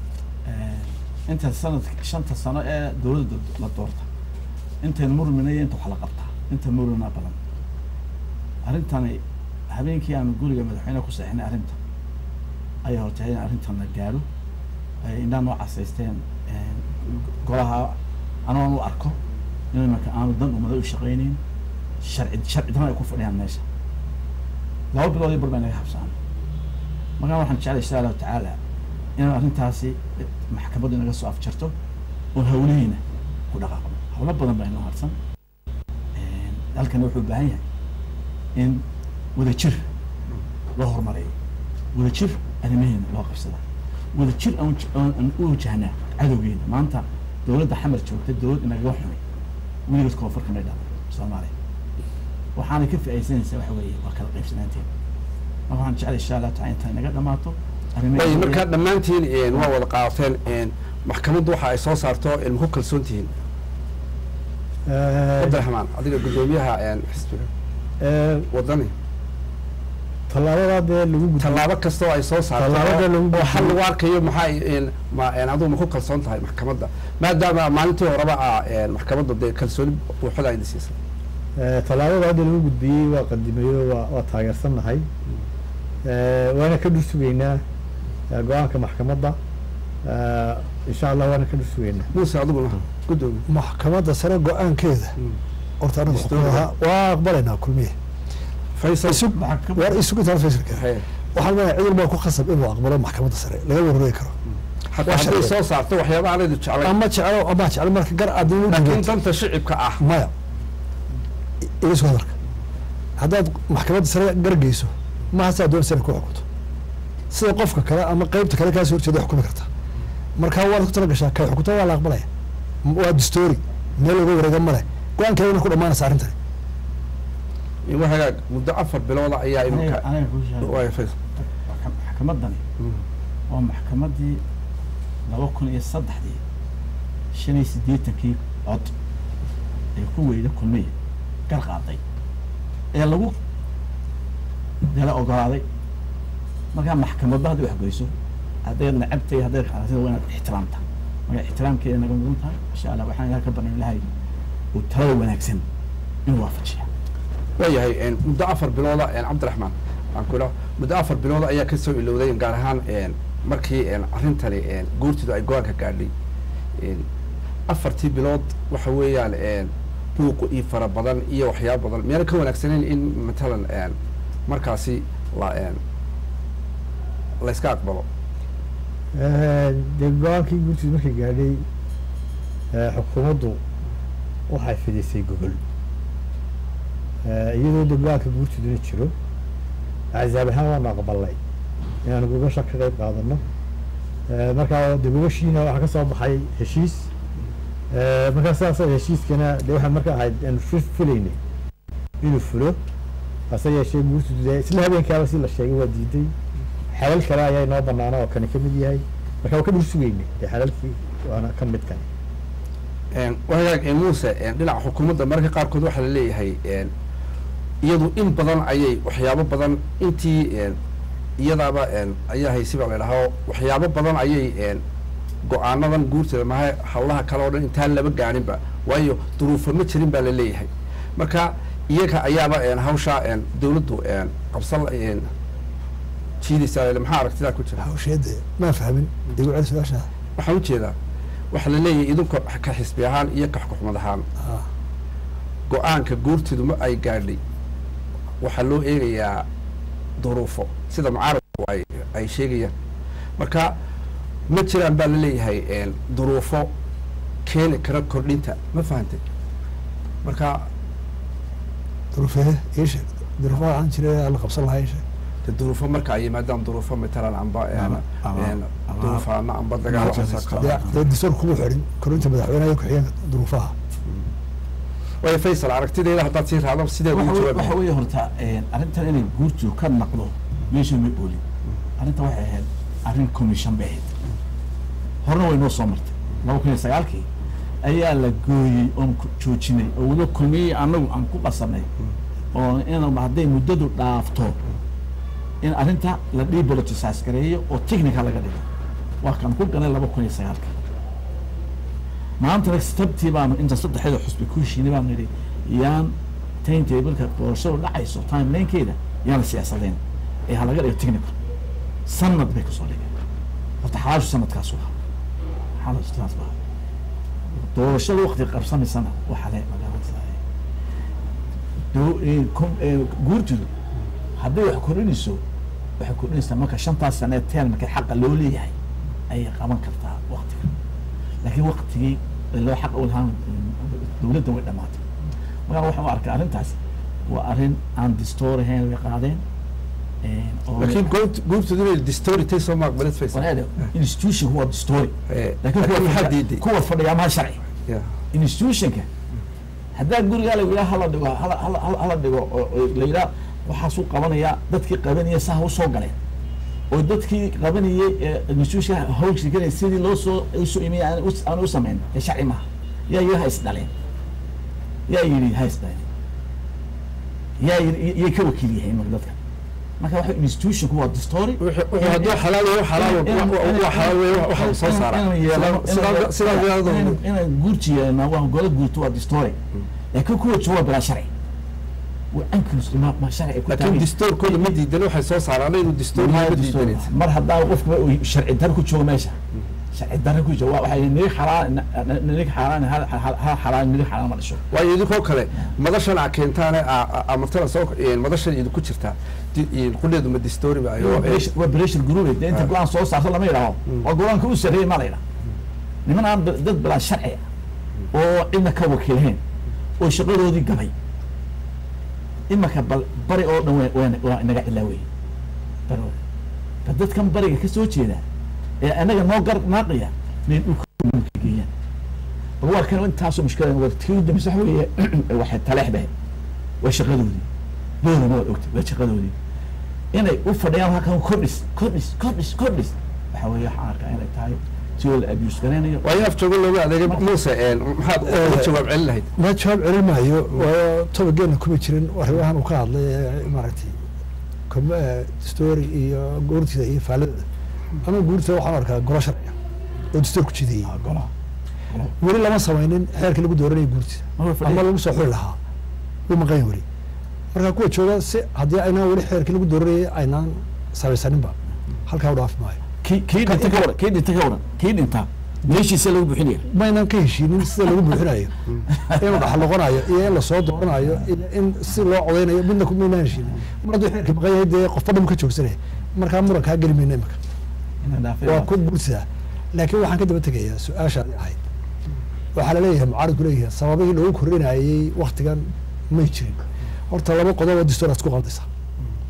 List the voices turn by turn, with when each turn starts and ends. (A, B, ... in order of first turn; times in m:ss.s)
0:00.4-0:04.0 A
0:04.8-0:07.4 A
0:08.6-0:11.8 A
0:12.8-0:14.2 A
0:15.0-0:17.9 A
0:18.4-0:19.2 A
0:19.7-0:21.4 A
0:22.0-0:23.6 A
0:24.9-0:26.1 A
0:27.2-0:28.6 A
0:29.2-0:31.7 A
0:32.3-0:35.1 A
0:36.2-0:37.6 A
0:38.6-0:38.8 A
0:39.3-0:39.8 A
0:40.7-0:41.3 A
0:41.9-0:43.6 A
0:44.1-0:49.2 A
0:49.9-0:51.5 A
0:52.6-0:54.9 A
0:55.7-0:58.6 A
0:58.1-1:03.3 B
1:04.9-1:05.6 C
1:05.4-1:07.5 B
1:08.0-1:08.5 C
1:08.5-1:08.9 B
1:10.3-1:11.7 C
1:11.4-1:21.0 B
1:12.6-1:13.8 C
1:21.6-1:25.1 C
1:26.0-1:27.6 C
1:28.3-1:29.4 C
1:30.0-1:32.1 C
1:32.1-1:33.4 B
1:33.5-1:35.1 D
1:35.8-1:37.9 D
1:36.1-1:36.7 B
1:38.8-1:39.2 B
1:39.0-1:44.3 D
1:39.3-1:40.0 A
1:40.7-1:41.0 B
1:44.9-1:47.0 B
1:45.0-1:45.6 D
1:46.8-1:49.2 D
1:48.7-1:50.0 B
1:50.0-1:50.3 D
1:51.6-1:52.3 D
1:53.2-1:56.4 D
1:57.3-1:59.7 D
2:00.4-2:02.3 D
2:02.8-2:06.3 D
2:07.8-2:10.0 B
2:09.7-2:12.6 A
2:10.6-2:11.1 B
2:13.5-2:14.4 A
2:15.3-2:16.4 A
2:17.3-2:18.9 A
2:20.0-2:20.9 A
2:21.5-2:22.0 A
2:22.9-2:23.4 A
2:24.8-2:25.6 A
2:26.7-2:28.1 A
2:28.6-2:34.0 A
2:34.7-2:35.6 A
2:36.2-2:36.9 A
2:37.6-2:46.1 B
2:46.8-2:47.0 B
2:47.7-2:53.9 B
2:54.5-2:55.8 B
2:57.4-2:58.0 B
2:59.1-3:01.6 C
3:02.7-3:03.6 C
3:04.5-3:05.6 C
3:07.2-3:09.1 C
3:10.1-3:11.4 C
3:12.0-3:13.4 C
3:14.3-3:17.1 C
3:17.9-3:21.4 C
3:22.2-3:22.8 C
3:23.5-3:26.3 C
3:26.9-3:32.1 C
3:33.1-3:36.9 B
3:37.8-3:40.8 B
3:41.4-3:44.8 B
3:45.4-3:55.3 B
3:56.4-3:57.8 B
3:57.8-4:00.1 D
4:00.4-4:00.9 B
4:01.5-4:04.2 B
4:04.4-4:04.6 D
4:05.7-4:07.4 B
4:08.4-4:09.4 B
4:10.2-4:12.7 B
4:13.4-4:13.7 B
4:14.5-4:16.7 B
4:17.4-4:19.2 B
4:20.2-4:20.7 B
4:22.1-4:25.0 D
4:25.4-4:30.9 B
4:27.7-4:29.2 A
4:29.9-4:31.0 A
4:30.6-4:33.7 D
4:35.2-4:37.8 B
4:37.1-4:41.4 A
4:42.0-4:44.1 A
4:45.2-4:47.3 A
4:47.8-4:51.9 A
4:52.5-4:54.6 A
4:55.6-4:58.6 A
4:59.2-5:00.7 A
5:02.4-5:11.4 A
5:12.0-5:13.1 A
5:13.8-5:14.9 A
5:15.8-5:16.6 A
5:17.7-5:20.4 A
5:21.9-5:23.7 A
5:24.4-5:25.4 A
5:26.0-5:28.7 A
5:29.3-5:30.7 A
5:31.4-5:35.0 A
5:35.7-5:39.4 A
5:40.2-5:41.1 A
5:40.8-5:43.9 B
5:43.3-5:47.6 A
5:45.3-5:46.6 B
5:48.3-5:49.1 A
5:49.9-5:56.2 A
5:56.9-6:03.9 A
6:05.1-6:06.0 A
6:07.6-6:09.4 A
6:10.0-6:12.4 A
6:11.6-6:17.2 B
6:12.9-6:19.6 A
6:20.1-6:21.3 A
6:22.3-6:24.8 A
6:23.7-6:27.1 B
6:26.1-6:29.4 A
6:29.9-6:34.6 A
6:34.7-6:41.5 B
6:41.0-6:45.2 A
6:46.0-6:47.4 A
6:48.1-6:49.4 A
6:50.0-6:50.9 A
6:52.5-6:55.0 A
6:55.9-6:56.1 A
6:56.8-6:58.2 A
6:58.8-7:01.7 A
7:02.6-7:06.1 A
7:06.8-7:07.4 A
7:08.0-7:09.3 A
7:10.1-7:16.2 A
7:16.0-7:19.3 B
7:18.2-7:18.8 D
7:19.4-7:24.0 D
7:24.7-7:27.4 D
7:28.0-7:29.6 D
7:30.1-7:31.0 D
7:30.9-7:31.3 A
7:32.2-7:35.6 D
7:34.4-7:34.9 A
7:36.3-7:36.8 D
7:37.5-7:41.5 D
7:42.1-7:42.8 D
7:43.0-7:46.6 A
7:43.4-7:43.9 D
7:46.7-7:48.5 D
7:48.9-7:49.6 A
7:49.1-7:57.4 D
7:58.0-7:58.7 A
7:58.4-8:01.6 D
8:02.5-8:08.7 D